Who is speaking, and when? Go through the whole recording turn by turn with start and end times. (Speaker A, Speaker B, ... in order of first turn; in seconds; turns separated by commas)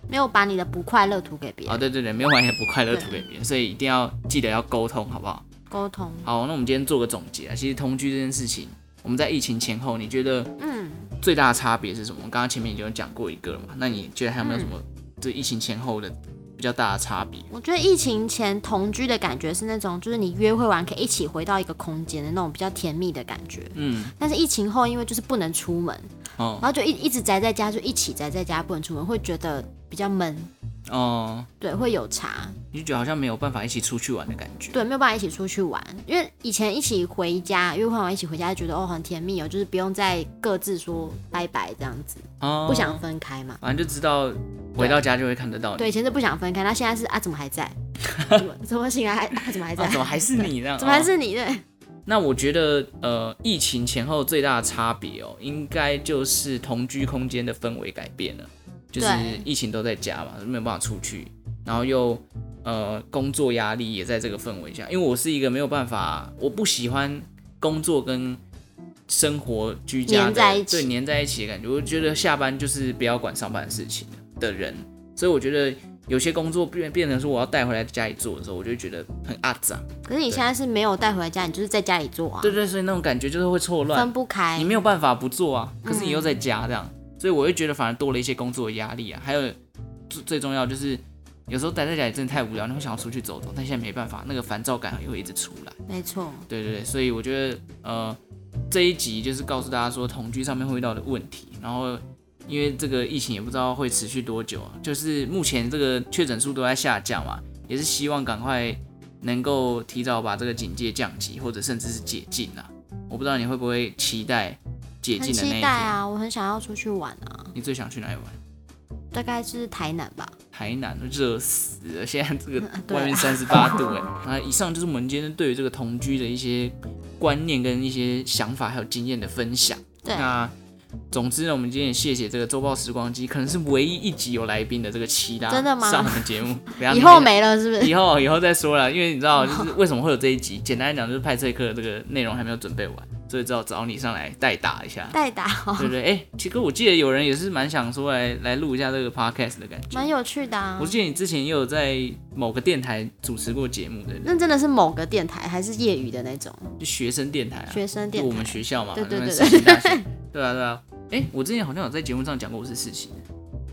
Speaker A: 0.1-1.8, Speaker B: 1.7-5.5, Speaker A: 2.9-3.2, Speaker A: 5.7-6.3, Speaker B: 6.2-10.6, Speaker A: 10.6-11.1, Speaker B: 11.2-17.5, Speaker A: 14.4-14.7, Speaker A: 17.5-30.5, Speaker B: 23.7-24.1, Speaker B: 26.4-26.7, Speaker B: 30.9-31.5, Speaker A: 31.6-32.6, Speaker B: 32.7-34.8, Speaker A: 34.7-43.6, Speaker B: 42.4-43.0, Speaker B: 43.6-45.9, Speaker A: 45.8-51.6, Speaker B: 48.0-48.5, Speaker B: 49.6-51.1, Speaker B: 52.0-68.4, Speaker A: 59.0-59.5, Speaker B: 69.1-80.4, Speaker A: 70.1-70.9, Speaker A: 80.0-82.5, Speaker B: 82.4-89.5, Speaker A: 83.9-84.7, Speaker A: 85.8-86.3, Speaker B: 90.1-95.8, Speaker A: 95.9-96.5, Speaker B: 96.5-98.2, Speaker B: 98.7-116.0, Speaker A: 115.2-117.5, Speaker B: 117.5-118.4, Speaker A: 119.1-120.3, Speaker B: 120.5-130.5, Speaker A: 122.6-123.9, Speaker A: 130.0-130.4, Speaker B: 131.1-145.2, Speaker A: 135.5-136.3, Speaker A: 136.8-137.9, Speaker A: 145.1-145.9, Speaker B: 145.8-150.1, Speaker A: 149.9-151.0, Speaker B: 150.8-154.3, Speaker A: 154.2-156.7, Speaker B: 156.8-163.2, Speaker A: 157.7-160.1